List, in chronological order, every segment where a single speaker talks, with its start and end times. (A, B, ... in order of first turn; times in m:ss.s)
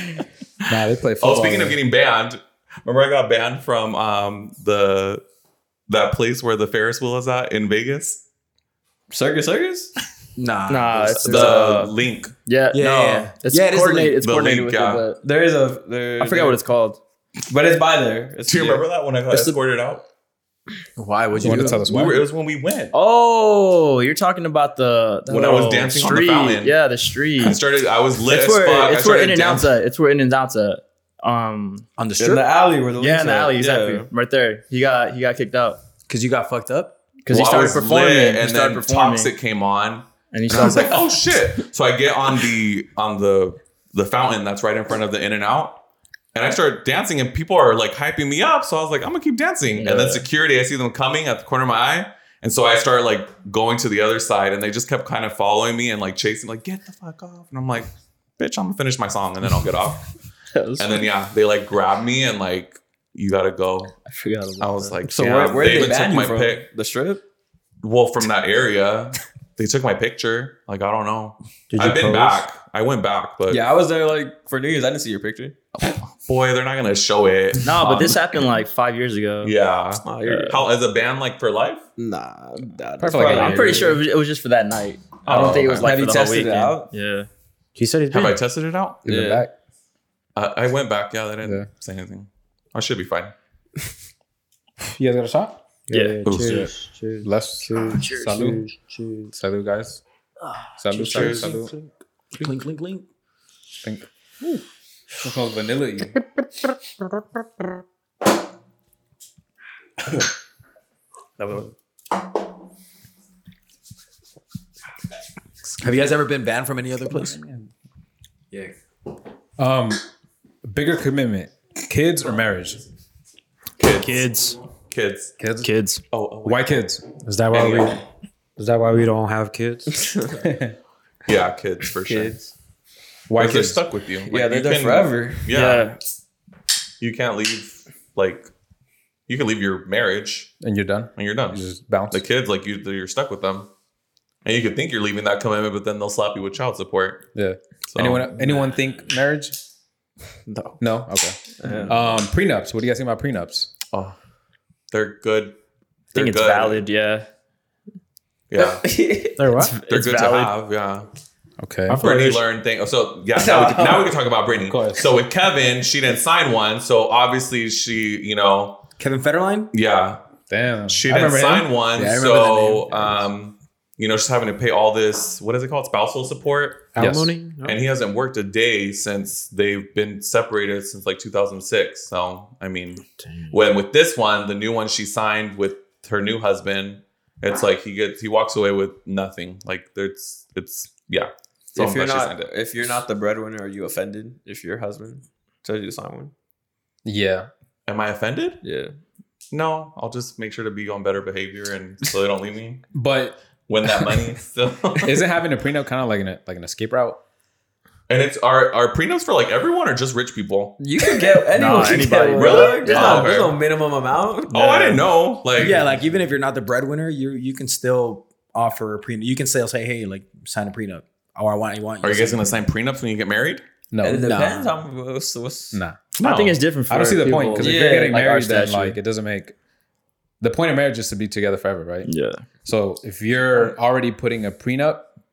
0:00.7-0:01.8 A
0:01.2-0:05.2 B
0:05.9-0:08.2 B
0:09.1-0:09.9 C
0:10.4-0:11.8 D
0:10.7-0:11.9 E
0:11.2-0:12.3 B
0:12.5-0:15.2 E
0:12.7-0:14.2 D
0:14.2-0:15.0 B
0:15.2-0:16.6 C
0:16.2-0:17.0 E
0:17.5-0:18.8 C
0:18.5-0:20.0 B
0:21.0-0:21.8 D
0:21.4-0:22.3 A
0:21.5-0:22.9 B
0:22.9-0:27.6 E
0:25.3-0:26.8 B
0:27.4-0:29.7 B
0:28.2-0:31.9 E
0:32.0-0:32.5 D
0:32.2-0:34.1 C
0:33.0-0:35.8 E
0:36.1-0:37.0 D
0:37.2-0:39.3 E
0:37.3-0:45.8 B
0:40.3-0:41.0 E
0:40.5-0:41.0 D
0:46.3-1:00.1 B
0:49.8-0:50.2 E
1:00.5-1:01.0 E
1:00.8-1:04.0 B
1:04.1-1:05.0 E
1:04.6-1:06.7 B
1:05.1-1:07.2 C
1:07.8-1:13.6 B
1:11.7-1:12.4 F
1:13.5-1:15.6 C
1:15.8-1:18.3 B
1:17.6-1:19.5 E
1:19.4-1:21.8 B
1:20.0-1:20.6 C
1:20.2-1:20.6 E
1:22.0-1:24.0 C
1:23.0-1:24.0 A
1:23.1-1:27.3 E
1:25.2-1:26.0 B
1:25.3-1:26.9 C
1:27.8-1:28.4 F
1:28.1-1:29.0 B
1:29.0-1:29.5 A
1:29.1-1:29.5 C
1:30.4-1:33.3 B
1:31.4-1:31.7 A
1:34.9-1:35.6 A
1:35.9-1:39.3 F
1:35.9-1:36.5 E
1:36.2-1:36.7 B
1:36.4-1:36.6 A
1:37.2-1:38.6 A
1:37.9-1:38.5 E
1:39.3-1:40.0 A
1:40.8-1:41.7 A
1:40.9-1:41.6 B
1:41.0-1:41.9 F
1:42.4-1:43.1 D
1:45.2-1:46.2 A
1:55.8-1:57.4 D
1:57.2-1:57.7 A
1:59.6-2:00.0 A
2:00.6-2:02.8 A
2:03.8-2:05.4 B
2:03.9-2:04.6 F
2:05.4-2:05.7 A
2:05.6-2:06.0 F
2:06.1-2:06.8 B
2:06.4-2:07.0 A
2:07.2-2:08.0 F
2:07.5-2:08.0 B
2:08.6-2:10.0 F
2:10.0-2:10.4 C
2:10.4-2:10.8 A
2:11.3-2:12.4 B
2:12.0-2:12.5 C
2:13.3-2:13.8 A
2:13.4-2:16.0 B
2:14.3-2:15.5 C
2:15.5-2:16.0 E
2:17.0-2:18.5 B
2:19.3-2:20.6 B
2:20.6-2:22.2 A
2:21.2-2:23.7 B
2:24.4-2:27.2 B
2:27.4-2:29.6 A
2:27.9-2:28.7 B
2:30.8-2:31.4 A
2:31.6-2:31.9 C
2:31.9-2:33.7 A
2:34.9-2:35.6 B
2:36.1-2:36.8 B
2:36.1-2:37.3 E
2:38.5-2:38.8 B
2:38.6-2:39.5 C
2:39.4-2:39.8 F
2:39.8-2:40.5 E
2:39.9-2:41.1 B
2:41.6-2:42.1 A
2:41.9-2:42.4 F
2:42.0-2:48.8 B
2:43.4-2:44.1 C
2:44.6-2:45.1 A
2:49.0-2:49.7 D
2:49.7-2:50.2 B
2:50.5-2:51.7 A
2:50.9-2:57.0 B
2:52.0-2:53.2 D
2:56.9-2:57.8 F
2:57.0-2:57.3 A
2:57.6-3:12.5 B
3:11.8-3:16.3 C
3:17.0-3:17.5 A
3:17.9-3:18.6 B
3:18.6-3:18.9 C
3:19.5-3:22.9 B
3:22.9-3:23.4 A
3:23.7-3:25.2 B
3:25.0-3:27.2 A
3:28.1-3:30.8 B
3:30.8-3:35.1 C
3:31.5-3:33.3 E
3:32.3-3:33.6 B
3:34.5-3:35.8 B
3:35.6-3:42.6 D
3:42.0-3:43.6 B
3:43.9-3:44.4 A
3:44.0-3:45.8 C
3:44.1-3:44.7 D
3:45.7-3:46.0 A
3:46.2-3:46.6 B
3:46.2-3:49.0 E
3:46.9-3:49.6 A
3:47.6-3:48.2 C
3:50.4-3:52.1 A
3:52.0-3:52.4 E
3:52.6-3:55.1 A